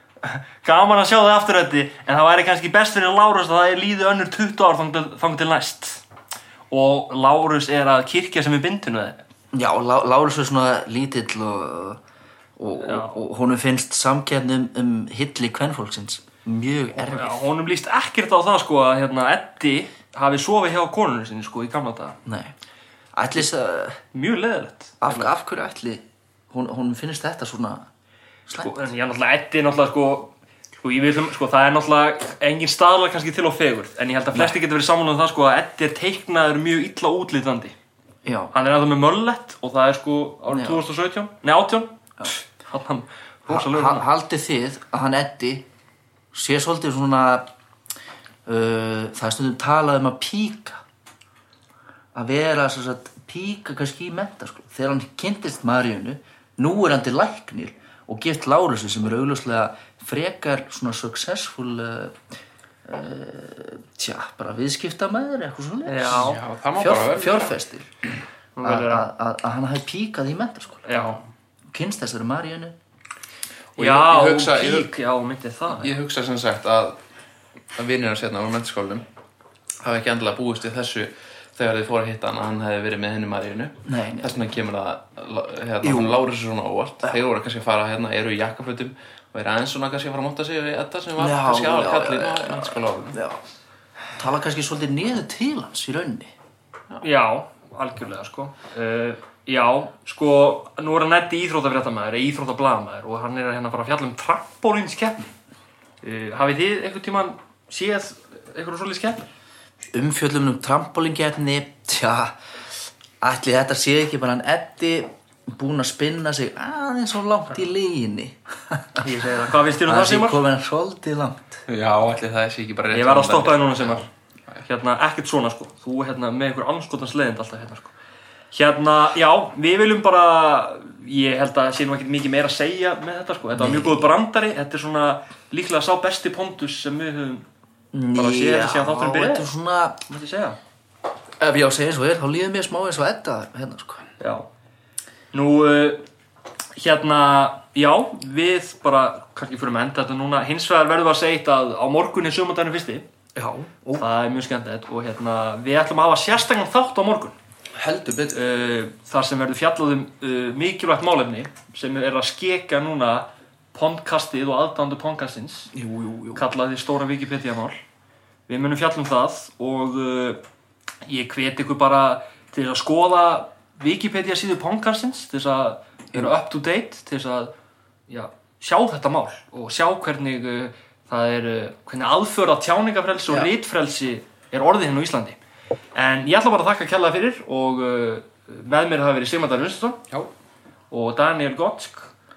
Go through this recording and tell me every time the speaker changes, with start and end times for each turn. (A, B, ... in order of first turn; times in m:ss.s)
0:00.2-0:06.0 A
0:06.7-0:09.2 A
0:09.5-0:12.0 B
0:12.6-0:17.5 B
0:12.8-0:13.2 A
0:17.0-0:22.2 A
0:22.3-0:22.5 B
0:23.2-0:24.0 B
0:24.1-0:25.3 A
0:25.0-0:27.8 B
0:28.5-0:28.8 B
0:28.6-0:37.7 A
0:34.3-0:34.6 B
0:38.2-0:38.5 B
0:38.5-0:44.0 A
0:40.5-0:40.8 B
0:43.5-0:45.6 B
0:46.3-0:47.5 B
0:48.5-0:50.8 B
0:52.1-1:02.2 B
1:02.8-1:07.9 B
1:05.9-1:06.4 A
1:06.1-1:07.4 C
1:08.6-1:09.1 A
1:08.6-1:11.0 B
1:10.9-1:11.2 A
1:11.7-1:12.8 B
1:13.8-1:14.9 C
1:13.8-1:15.9 A
1:15.7-1:17.0 C
1:17.8-1:19.0 C
1:19.8-1:33.2 C
1:23.8-1:24.4 B
1:25.8-1:26.2 B
1:31.2-1:33.4 B
1:34.2-1:36.3 B
1:37.0-1:45.3 A
1:46.0-1:49.2 A
1:49.9-1:52.4 B
1:53.2-1:59.1 B
1:59.0-2:00.4 A
1:59.8-2:01.6 B
2:01.7-2:04.6 C
2:02.9-2:04.1 A
2:04.6-2:07.9 A
2:08.5-2:17.4 A
2:13.6-2:14.1 B
2:17.9-2:20.0 B
2:18.1-2:19.5 A
2:20.1-2:20.6 A
2:21.4-2:24.0 B
2:24.2-2:24.5 A
2:25.3-2:26.0 A
2:26.8-2:33.1 A
2:33.4-2:34.0 B
2:34.0-2:37.4 A
2:37.8-2:38.4 B
2:38.3-2:45.7 A
2:45.7-2:46.4 B
2:46.4-2:47.8 A
2:48.5-2:50.4 A
2:51.0-2:57.5 A
2:58.1-3:05.4 A
3:06.0-3:10.0 A
3:10.9-3:12.1 A